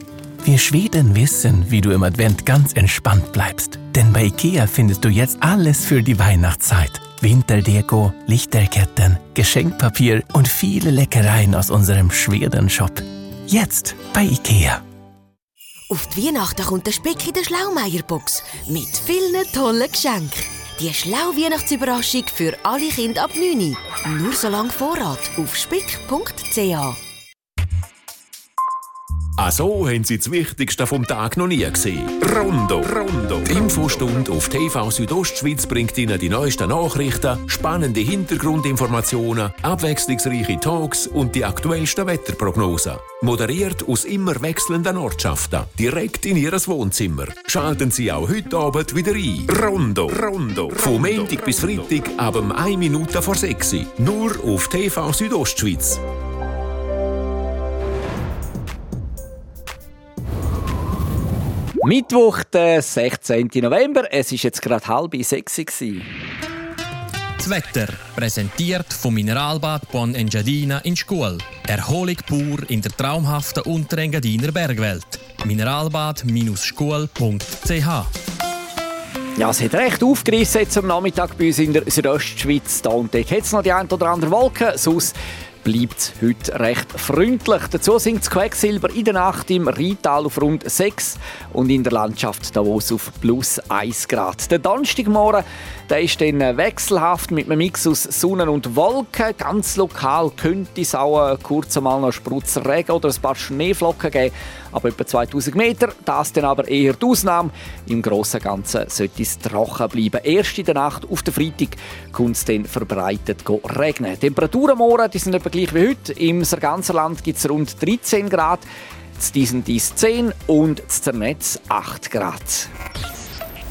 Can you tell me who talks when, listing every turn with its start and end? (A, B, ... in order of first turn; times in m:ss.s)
0:00.4-0:14.8 A
0:15.9-0:27.0 B
0:29.4-0:56.0 C
1:01.8-1:06.0 D
1:07.4-1:18.1 E
1:19.4-1:58.6 D
1:59.2-2:02.7 D